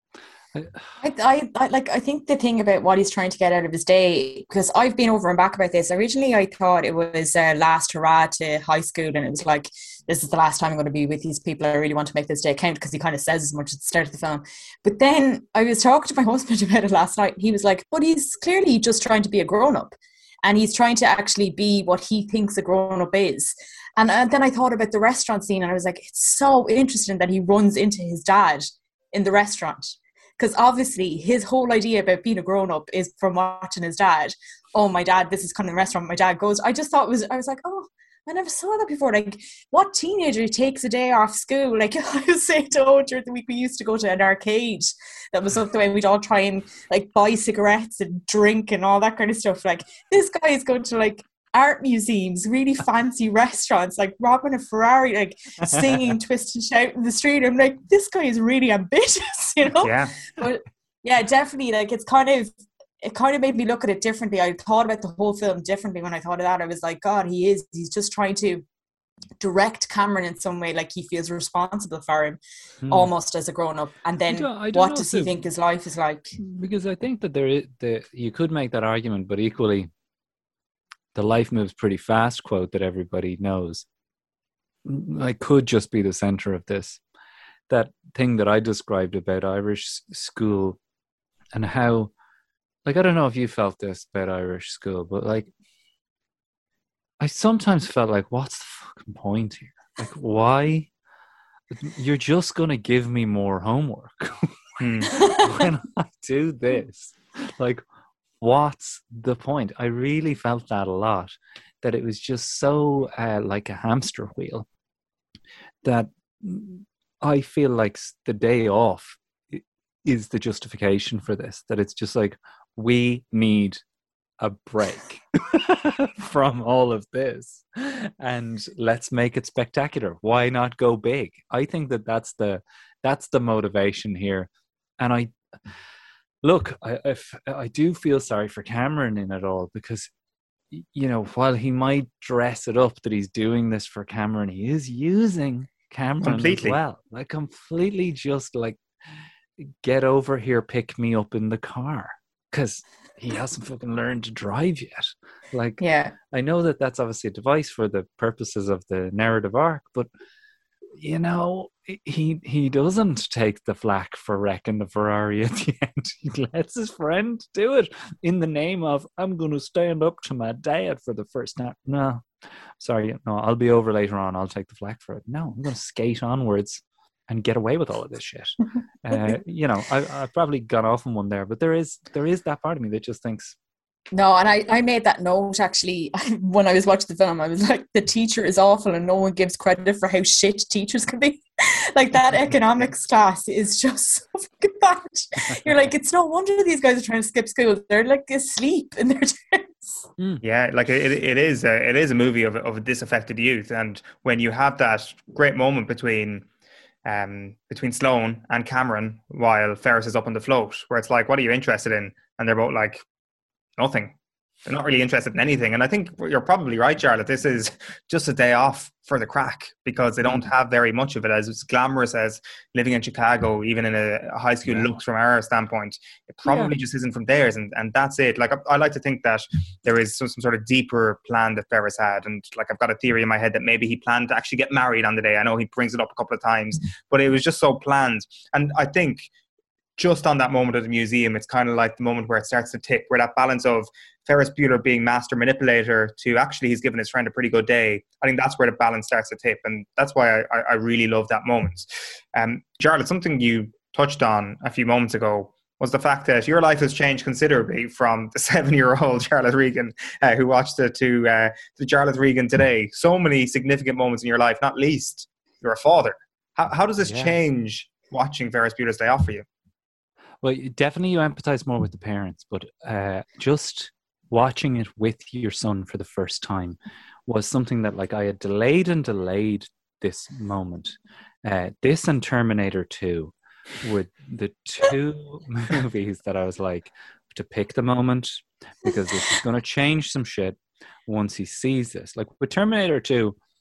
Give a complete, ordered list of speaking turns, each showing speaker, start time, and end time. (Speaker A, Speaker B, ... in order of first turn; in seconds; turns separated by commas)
Speaker A: 0.5-0.8, Speaker B: 1.0-68.6, Speaker C: 59.8-60.1, Speaker B: 69.4-76.4, Speaker A: 72.8-73.1, Speaker A: 74.3-75.4, Speaker A: 76.4-79.9, Speaker A: 81.1-83.9, Speaker A: 84.8-87.0, Speaker A: 87.7-90.8, Speaker A: 91.5-92.1, Speaker A: 92.8-95.5, Speaker A: 97.2-100.9, Speaker A: 101.7-107.8, Speaker C: 104.8-105.1, Speaker A: 108.4-114.7, Speaker A: 115.8-123.8, Speaker A: 124.4-135.3, Speaker A: 136.4-140.1, Speaker A: 140.7-148.8, Speaker C: 146.2-146.8, Speaker A: 149.6-160.1, Speaker B: 155.8-156.1, Speaker A: 160.9-172.3, Speaker A: 172.8-183.6, Speaker B: 184.1-200.1, Speaker C: 200.4-206.5, Speaker C: 207.1-213.0, Speaker C: 213.8-214.1, Speaker C: 214.7-239.3, Speaker A: 224.7-225.0, Speaker A: 226.4-226.7, Speaker C: 240.0-269.4, Speaker A: 267.0-267.4, Speaker A: 270.4-293.4